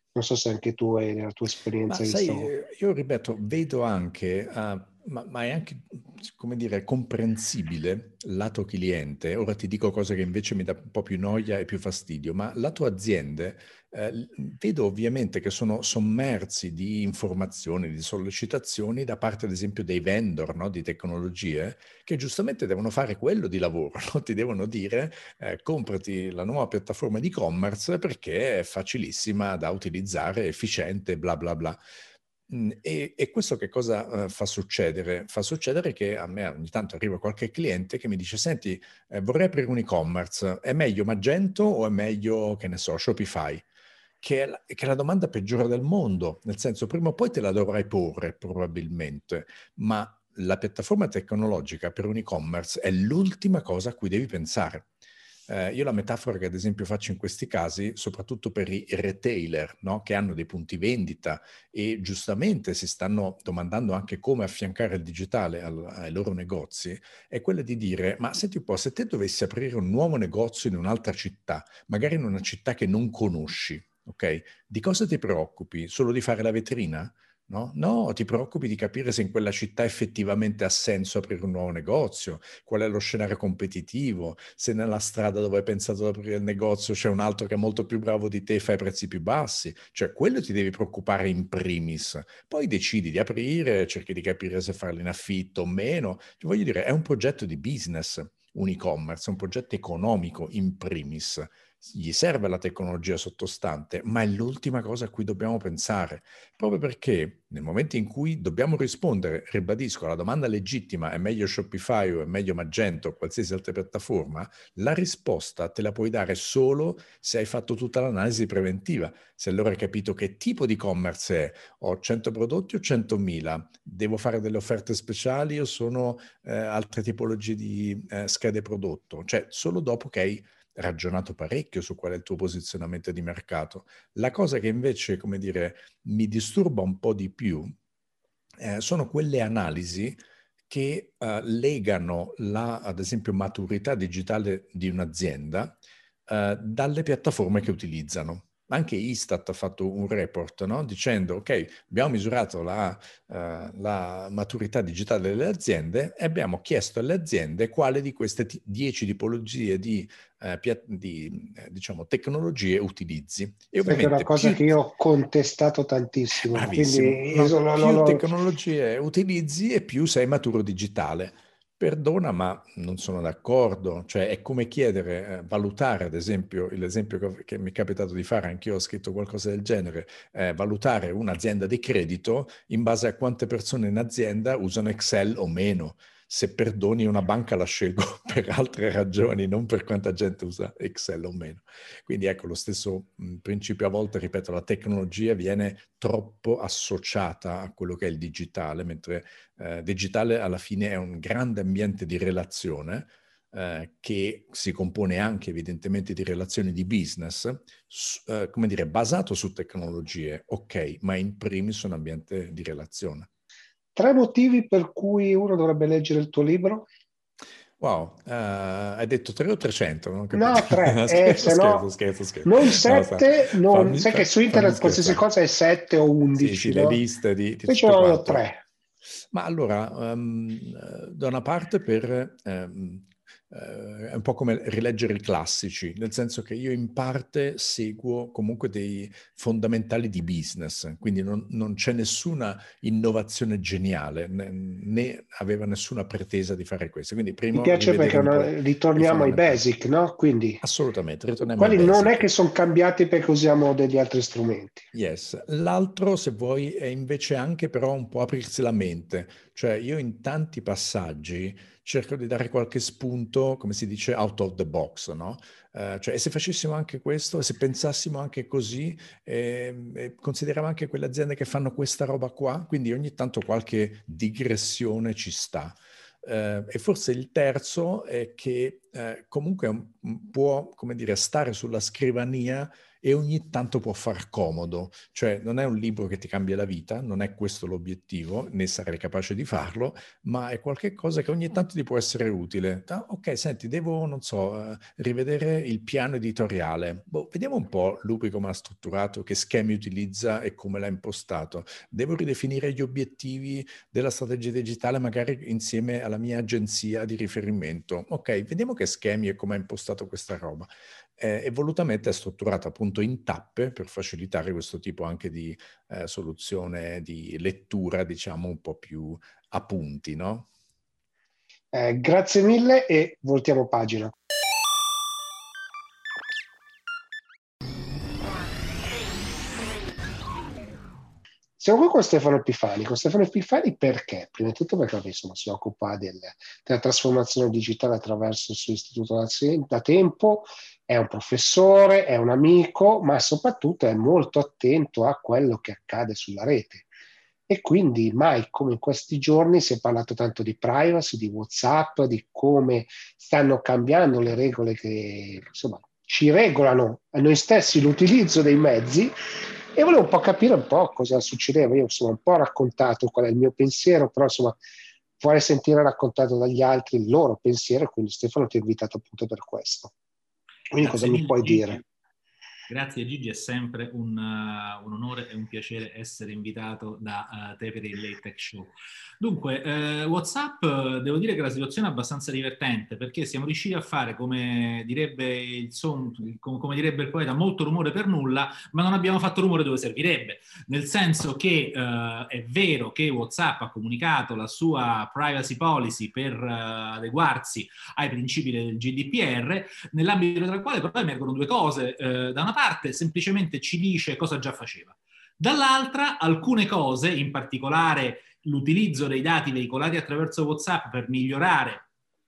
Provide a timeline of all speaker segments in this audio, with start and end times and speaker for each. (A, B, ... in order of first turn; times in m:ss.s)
0:00.1-0:02.5 A
0:01.9-0:31.8 B
0:32.5-0:43.6 B
0:44.2-0:54.9 B
0:55.5-2:17.7 B
2:18.6-2:20.2 B
2:20.7-2:44.6 B
2:43.8-2:48.3 A
2:46.5-3:33.3 B
3:34.0-3:36.8 A
3:37.8-3:45.2 B
3:40.3-3:41.8 A
3:42.4-3:47.0 A
3:46.4-3:48.4 B
3:47.7-3:48.6 A
3:49.3-4:09.6 B
4:07.5-4:10.6 A
4:10.6-4:12.3 B
4:11.6-4:14.9 A
4:14.9-5:20.5 B
5:21.7-5:24.1 A
5:31.6-5:46.9 A
5:47.5-5:59.1 A
5:59.7-6:04.6 A
6:05.2-6:09.9 A
6:10.7-6:11.8 A
6:10.8-6:11.8 C
6:12.7-6:51.8 C